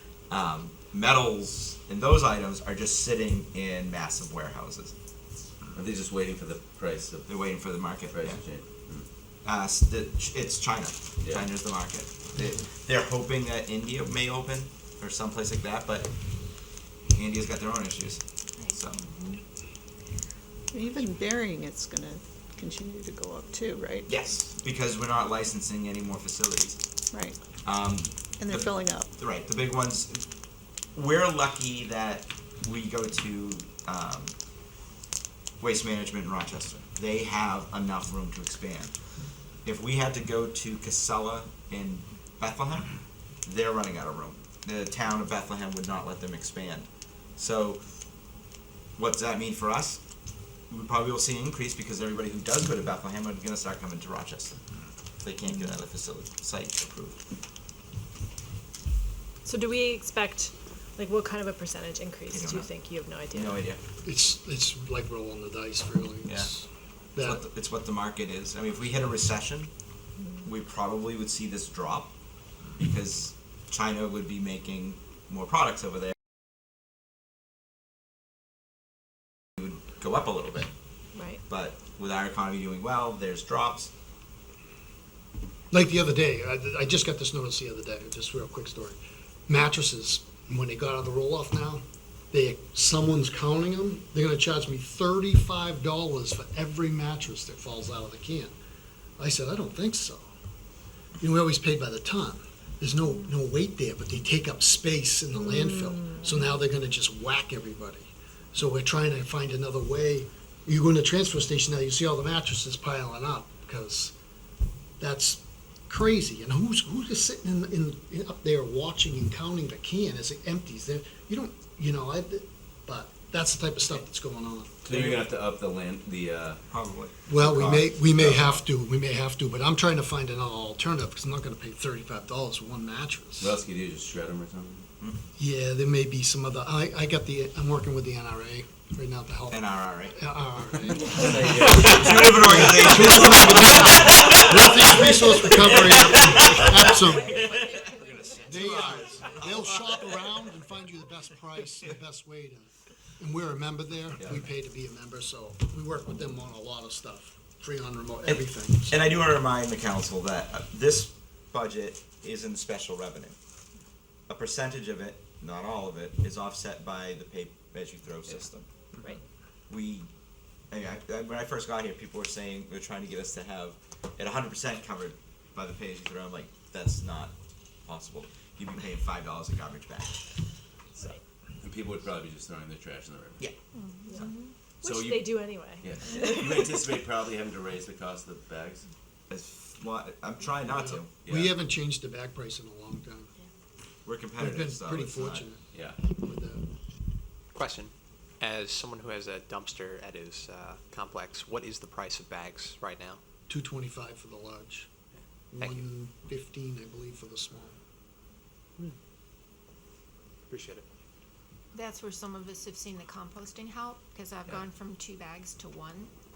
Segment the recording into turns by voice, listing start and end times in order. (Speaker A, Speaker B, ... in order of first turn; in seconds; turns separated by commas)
Speaker A: 0.3-4.9, Speaker B: 5.7-7.3, Speaker A: 7.2-8.4, Speaker B: 8.1-9.1, Speaker A: 9.4-16.1, Speaker B: 11.2-11.5, Speaker A: 17.1-19.1, Speaker C: 20.7-24.1, Speaker A: 24.1-26.8, Speaker C: 27.1-27.4, Speaker A: 27.6-30.2, Speaker C: 28.4-29.1, Speaker A: 30.9-34.3, Speaker A: 35.6-38.9, Speaker A: 39.6-42.9, Speaker A: 43.4-47.8, Speaker A: 49.0-50.0, Speaker A: 50.7-54.6, Speaker A: 55.2-57.2, Speaker D: 59.4-63.7, Speaker A: 62.3-62.7, Speaker A: 63.3-63.8, Speaker E: 64.0-67.4, Speaker A: 67.2-69.7, Speaker A: 70.4-72.1, Speaker A: 72.8-76.2, Speaker A: 79.6-80.7, Speaker D: 81.1-81.4, Speaker A: 81.5-83.9, Speaker E: 85.7-98.5, Speaker E: 99.2-100.3, Speaker E: 101.2-114.1, Speaker D: 105.3-106.3, Speaker E: 115.0-124.7, Speaker B: 124.8-126.6, Speaker A: 124.9-125.2, Speaker A: 126.7-128.4, Speaker E: 127.3-133.6, Speaker B: 127.6-128.5, Speaker B: 133.4-134.8, Speaker E: 135.4-147.4, Speaker A: 139.5-140.2, Speaker B: 141.1-143.1, Speaker A: 141.7-150.0, Speaker E: 148.4-159.1, Speaker A: 158.3-163.3, Speaker A: 164.3-168.7, Speaker A: 169.7-170.1, Speaker A: 170.7-180.2, Speaker B: 181.6-183.4, Speaker F: 183.7-184.5, Speaker D: 184.8-186.4, Speaker B: 184.8-188.8, Speaker A: 189.3-191.1, Speaker E: 190.8-193.3, Speaker B: 191.2-191.5, Speaker A: 194.0-195.5, Speaker E: 194.4-196.7, Speaker B: 195.7-196.0, Speaker G: 197.5-203.2, Speaker E: 203.5-204.9, Speaker E: 205.5-207.8, Speaker G: 210.5-210.8, Speaker F: 211.7-216.1